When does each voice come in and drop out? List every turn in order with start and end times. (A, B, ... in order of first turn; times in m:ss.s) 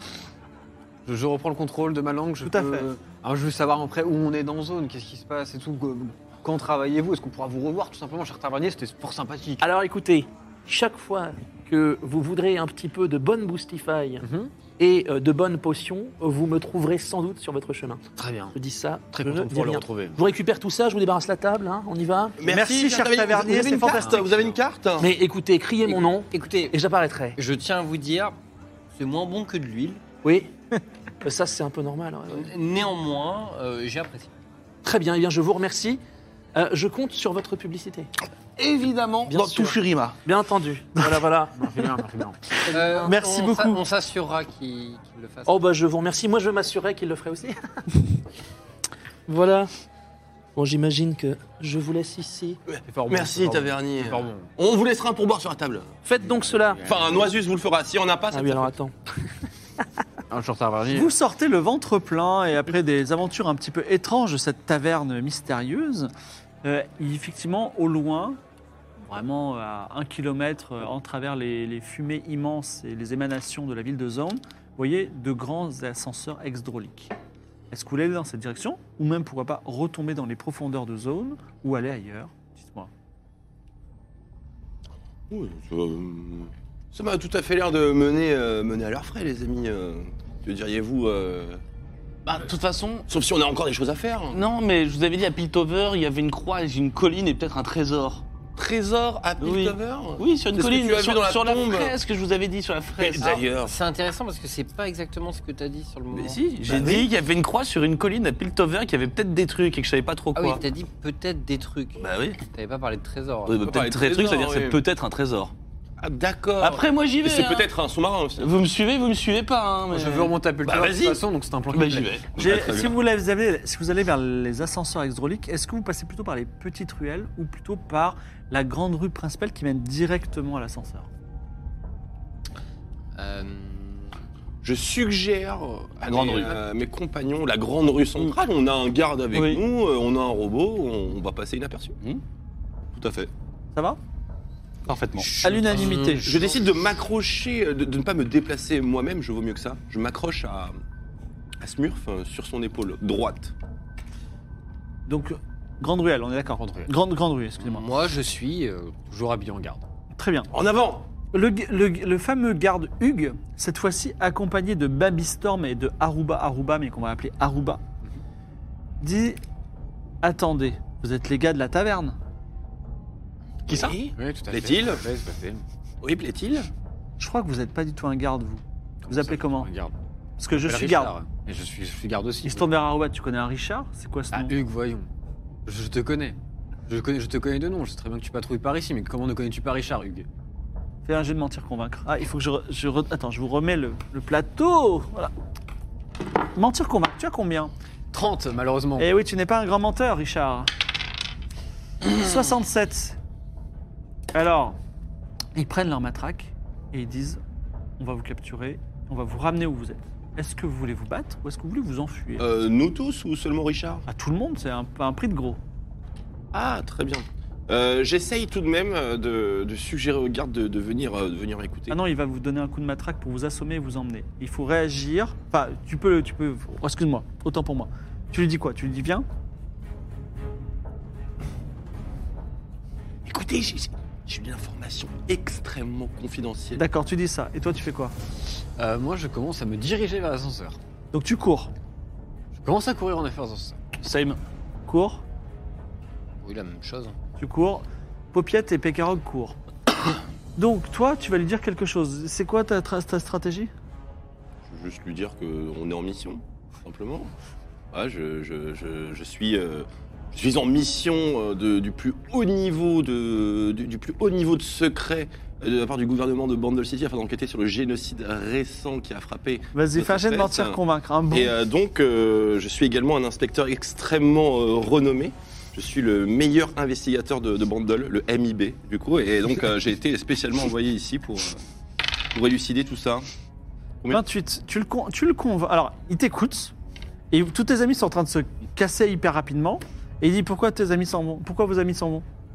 0:01.0-0:09.6 A
0:02.4-0:02.9 B
0:09.6-0:14.2 C
0:14.2-0:14.5 A
0:14.8-0:18.0 C
0:18.2-0:18.6 A
0:18.5-0:22.4 C
0:19.1-0:20.2 A
0:22.4-0:25.1 D
0:22.4-0:24.3 B
0:24.0-0:24.5 A
0:25.0-0:27.4 C
0:25.8-0:26.8 E
0:27.4-0:28.3 E
0:28.9-0:30.0 E
0:30.2-0:30.5 C
0:31.2-0:32.5 C
0:32.3-0:34.3 E
0:34.8-0:36.0 C
0:36.5-0:38.1 C
0:38.6-0:40.2 F
0:39.2-0:41.8 C
0:41.5-0:42.4 A
0:42.7-0:43.8 B
0:42.7-0:45.6 E
0:45.5-0:47.6 C
0:49.3-0:49.7 C
0:50.5-0:52.6 C
0:52.7-0:55.9 D
0:52.8-0:54.5 A
0:56.0-0:56.8 C
0:56.2-0:57.3 A
0:56.8-0:58.7 D
0:58.3-0:58.9 C
1:00.3-1:01.1 A
1:00.9-1:06.1 B
1:06.6-1:08.4 B
1:09.0-1:17.1 B
1:17.7-1:22.9 B
1:25.3-1:31.6 D
1:32.3-1:33.1 F
1:33.1-1:34.4 D
1:34.3-1:38.2 F
1:38.6-1:42.0 D
1:39.4-1:43.4 F
1:43.0-1:43.7 D
1:43.6-1:46.4 E
1:46.1-1:47.1 D
1:46.2-1:50.6 F
1:50.3-1:53.6 E
1:52.0-1:52.4 F
1:53.4-1:55.5 F
1:53.6-1:54.8 D
1:56.0-1:58.6 D
1:56.6-1:57.7 F
1:58.4-2:00.3 F
1:59.9-2:02.1 A
2:00.6-2:01.2 D
2:01.7-2:03.0 D
2:02.4-2:11.1 B
2:13.2-2:14.1 E
2:14.6-2:22.0 D
2:16.0-2:16.6 F
2:19.3-2:19.6 F
2:22.9-2:23.3 D
2:24.9-2:25.3 F
2:25.2-2:26.6 E
2:25.4-2:26.3 B
2:26.2-2:30.8 D
2:31.6-2:33.5 D
2:35.0-2:37.9 B
2:36.6-2:36.9 A
2:37.6-2:39.8 E
2:40.1-2:40.5 B
2:40.5-2:41.1 D
2:41.3-2:47.8 B
2:49.0-2:49.4 B
2:50.2-2:52.2 B
2:53.7-2:54.0 F
2:53.7-2:55.0 D
2:54.1-2:55.6 A
2:56.0-2:56.7 D
2:57.2-2:59.7 B
2:59.0-2:59.9 A
3:00.4-3:01.1 B
3:00.5-3:02.7 A
3:02.4-3:04.5 B
3:04.3-3:05.1 A
3:05.6-3:06.4 A
3:06.9-3:10.3 A
3:11.0-3:15.3 B
3:16.5-3:17.7 B
3:18.1-3:19.1 A
3:19.0-3:20.7 B
3:22.0-3:23.2 B
3:24.3-3:24.8 B
3:25.5-3:27.4 B
3:28.0-3:32.4 B
3:32.4-3:34.0 D
3:34.1-3:35.6 B
3:36.5-3:42.0 D
3:41.9-3:49.2 B
3:53.2-3:56.8 D
3:56.8-3:58.1 B
3:58.8-4:00.8 A
4:01.1-4:01.7 B
4:02.5-4:03.8 A
4:04.0-4:04.4 F
4:04.9-4:05.2 B
4:06.4-4:07.2 E
4:07.4-4:09.6 B
4:10.6-4:13.7 B
4:14.7-4:17.3 D
4:17.9-4:30.8 D
4:29.7-4:31.5 B
4:31.3-4:41.6 D
4:42.3-4:43.2 D
4:44.1-4:46.7 B
4:47.3-4:52.2 B